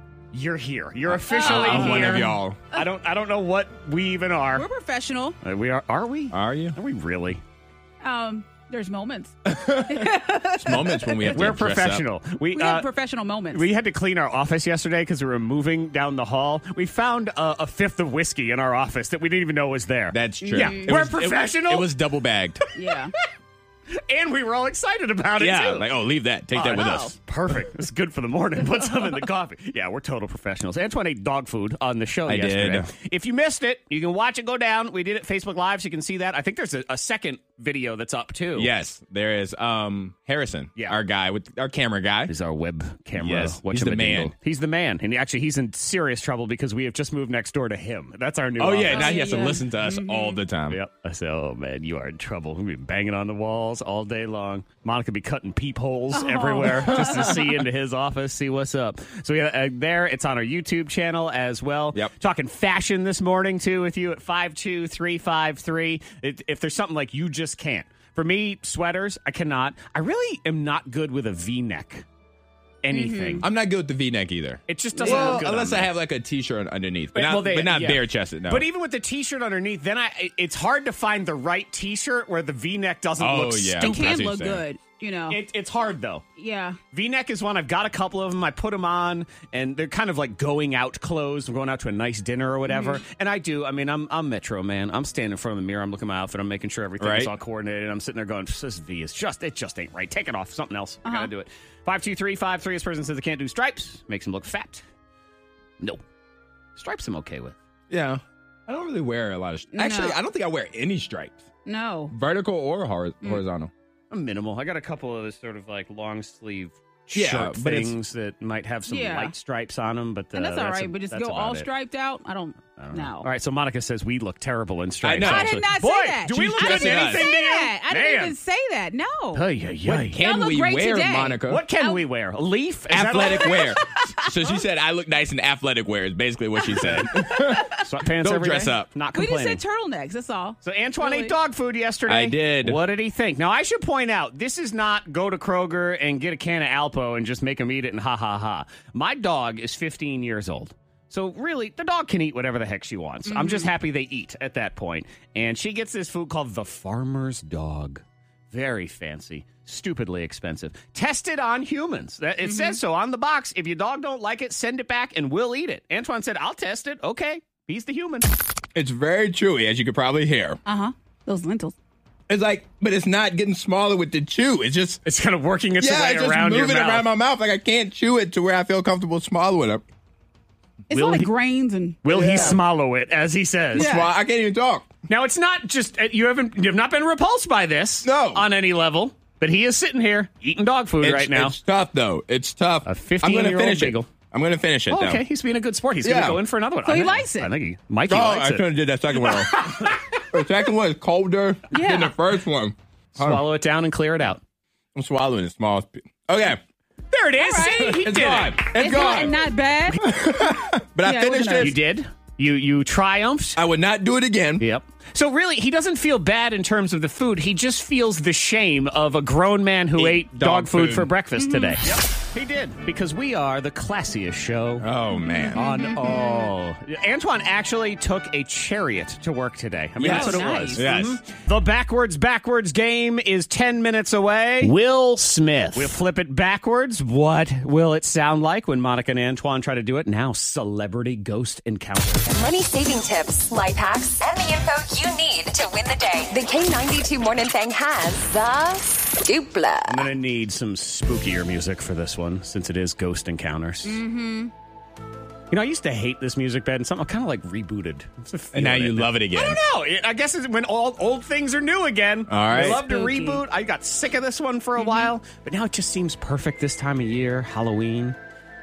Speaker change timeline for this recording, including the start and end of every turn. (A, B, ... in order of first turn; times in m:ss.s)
0:00.3-0:04.6 A
0:01.2-0:02.6 B
0:01.3-0:02.9 C
0:04.6-0:05.4 C
0:05.4-0:07.4 A
0:06.3-0:06.8 B
0:08.0-0:11.4 C
0:09.4-0:12.1 B
0:11.3-0:12.9 A
0:12.5-0:13.7 C
0:13.5-0:21.9 A
0:20.1-0:22.7 B
0:20.5-0:21.0 C
0:22.8-0:23.1 C
0:23.9-0:25.9 A
0:25.4-0:27.2 B
0:26.5-0:38.7 A
0:26.8-0:27.1 C
0:32.3-0:32.9 B
0:38.6-0:42.3 B
0:40.8-0:41.0 A
0:42.3-0:49.1 A
0:43.2-0:44.3 B
0:48.6-0:50.8 B
0:48.9-0:50.4 C
0:50.7-1:12.1 A
0:56.1-0:57.5 C
0:56.9-0:57.3 B
1:12.8-1:13.5 A
1:12.9-1:13.5 C
1:13.4-1:18.7 B
1:14.7-1:15.9 A
1:15.0-1:15.4 C
1:17.1-1:24.2 A
1:23.2-1:24.6 B
1:23.8-1:25.4 C
1:25.3-1:26.2 A
1:26.4-1:26.8 C
1:26.9-1:44.8 A
1:32.7-1:33.0 C
1:37.0-1:37.3 B
1:41.0-1:41.3 C
1:46.8-1:47.6 A
1:47.9-1:51.5 B
1:49.8-1:50.2 C
1:51.7-1:52.1 C
1:52.1-1:53.7 B
1:54.1-2:01.7 A
1:57.2-1:58.0 B
1:58.9-1:59.3 C
2:00.3-2:03.3 C
2:02.8-2:08.4 A
2:05.0-2:05.6 B
2:05.2-2:09.4 C
2:06.3-2:07.3 B
2:09.3-2:10.2 A
2:09.9-2:11.6 B
2:10.2-2:12.1 C
2:11.5-2:13.8 A
2:12.9-2:18.9 B
2:13.5-2:14.3 C
2:17.8-2:19.6 A
2:19.1-2:21.4 C
2:20.6-2:48.3 A
2:22.1-2:22.8 B
2:33.3-2:33.7 C
2:42.4-2:42.8 C
2:48.8-2:50.6 B
2:50.7-2:51.7 C
2:52.3-2:55.0 B
2:55.0-2:57.1 A
2:55.8-2:59.8 B
3:00.9-3:01.3 A
3:00.9-3:02.6 C
3:02.0-3:03.9 A
3:02.1-3:02.6 B
3:03.8-3:04.1 C
3:03.8-3:04.9 B
3:05.1-3:11.6 A
3:08.0-3:08.5 B
3:11.0-3:15.2 B
3:12.8-3:14.1 A
3:14.9-3:20.0 A
3:16.0-3:16.4 B
3:16.8-3:17.5 C
3:18.1-3:23.5 B
3:21.7-3:22.2 C
3:23.2-3:24.4 A
3:25.0-3:26.6 B
3:27.1-3:28.7 A
3:27.4-3:30.1 C
3:27.8-3:29.4 B
3:29.9-3:31.8 B
3:31.0-3:31.8 C
3:31.6-3:33.6 A
3:33.6-3:34.7 B
3:34.6-3:44.9 A
3:40.0-3:41.1 B
3:41.4-3:41.8 C
3:44.8-3:45.6 B
3:45.2-3:46.5 C
3:45.6-4:02.3 A
3:50.0-3:51.2 B
3:50.0-3:50.9 C
4:02.3-4:10.1 D
4:09.9-4:14.0 A
4:13.8-4:14.5 C
4:15.5-4:28.2 A
4:18.5-4:19.6 B
4:22.3-4:22.8 B
4:22.6-4:23.4 C
4:24.8-4:25.1 C